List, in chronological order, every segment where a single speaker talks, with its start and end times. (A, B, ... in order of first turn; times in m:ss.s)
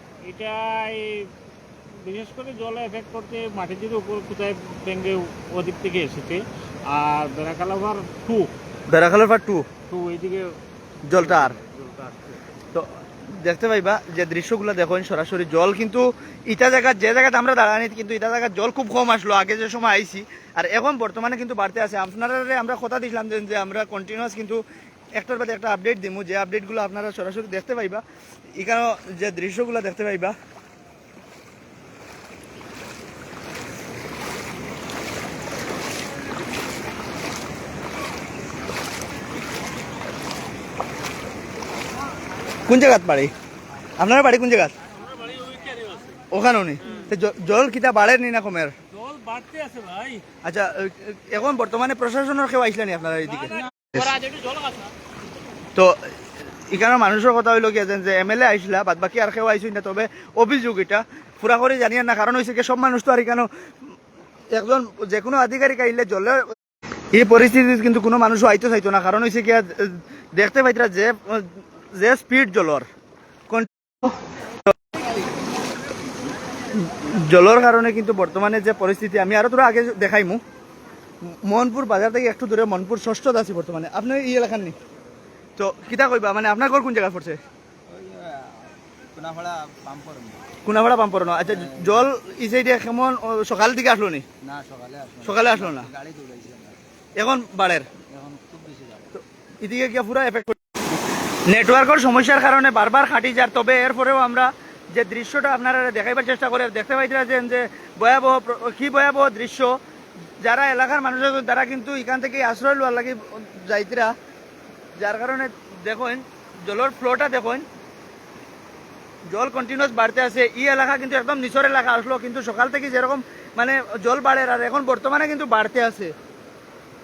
0:00.2-0:01.3 A
0:02.0-0:08.5 A
0:08.9-0:09.7 B
0:09.9-0:10.6 A
0:11.0-0:11.6 B
0:12.7-0:24.6 B
0:25.1-0:28.0 B
0:28.6-0:30.3 B
0:42.7-0:43.3 B
0:44.0-0:44.7 B
0:45.2-0:46.0 A
0:46.3-0:48.7 B
0:48.9-0:50.2 A
0:50.4-0:53.6 B
0:54.0-0:54.9 A
0:55.7-0:56.1 B
0:56.7-1:03.5 B
1:04.5-1:06.5 B
1:07.1-1:12.9 B
1:13.5-1:14.2 B
1:16.7-1:20.4 B
1:21.3-1:24.8 B
1:25.6-1:27.4 B
1:27.9-1:28.6 C
1:29.2-1:30.4 C
1:30.6-1:34.2 B
1:34.4-1:36.8 C
1:35.2-1:35.9 B
1:37.2-1:37.9 B
1:38.1-1:39.1 C
1:39.2-1:40.6 B
1:41.5-1:49.8 B
1:50.4-1:54.1 B
1:55.0-1:57.7 B
1:59.3-2:06.1 B